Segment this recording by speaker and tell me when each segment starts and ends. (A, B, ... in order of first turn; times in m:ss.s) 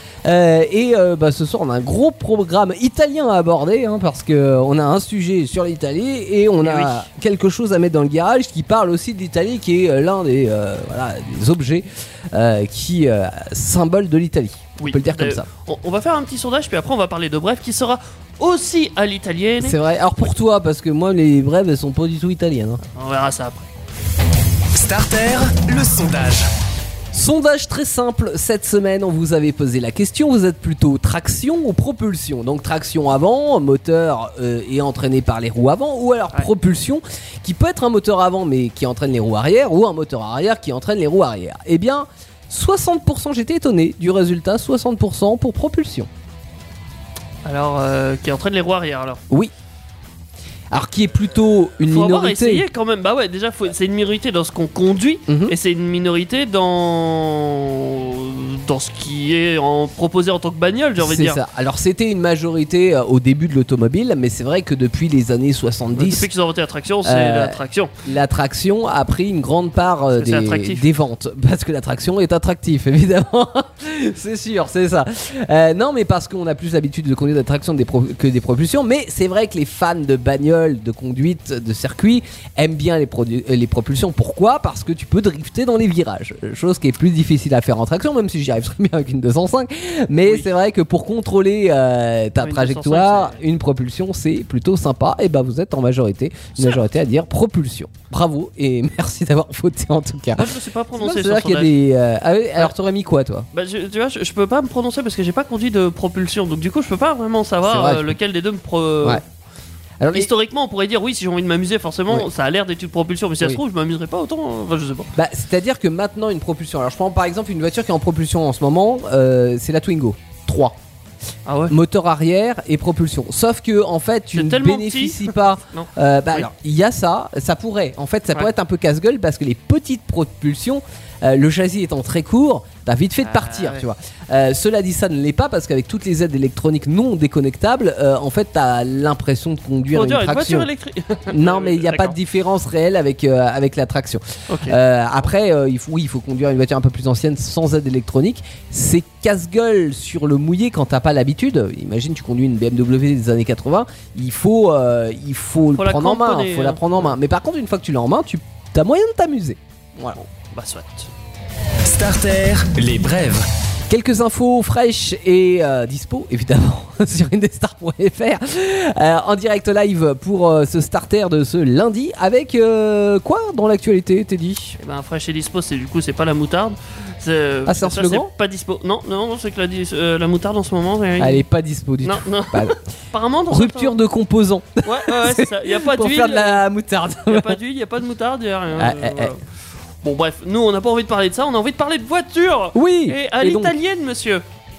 0:00.2-0:15.5 A
0:06.6-0:07.1 B
0:14.8-0:19.8 B
0:19.6-0:22.8 A
0:22.8-0:23.7 B
0:24.7-0:26.5 C
0:27.1-0:46.1 A
0:47.4-0:49.2 B
0:50.7-0:52.6 A
0:51.8-1:01.4 B
0:55.3-0:55.6 A
1:01.0-1:06.3 A
1:05.9-1:07.9 B
1:07.0-1:43.5 A
1:10.1-1:10.9 B
1:30.2-1:30.5 B
1:32.4-1:33.4 B
1:40.4-1:41.8 B
1:43.5-1:49.2 B
1:47.7-1:48.2 A
1:50.0-1:50.3 A
1:50.1-1:55.1 B
1:55.2-2:00.8 A
2:01.5-2:01.8 B
2:01.7-2:20.7 A
2:04.3-2:06.5 B
2:13.2-2:13.8 B
2:19.9-2:22.2 B
2:21.3-2:40.2 A
2:24.5-2:24.8 B
2:35.8-2:37.1 B
2:40.1-2:41.1 B
2:41.8-2:43.4 C
2:43.9-2:54.8 A
2:54.8-3:01.4 B
2:57.7-2:58.3 A
3:01.2-3:02.8 A
3:02.0-3:04.0 B
3:03.5-3:07.6 A
3:04.8-3:06.6 B
3:07.3-3:09.4 B
3:08.7-3:09.3 A
3:10.0-3:14.4 B
3:12.7-3:13.8 A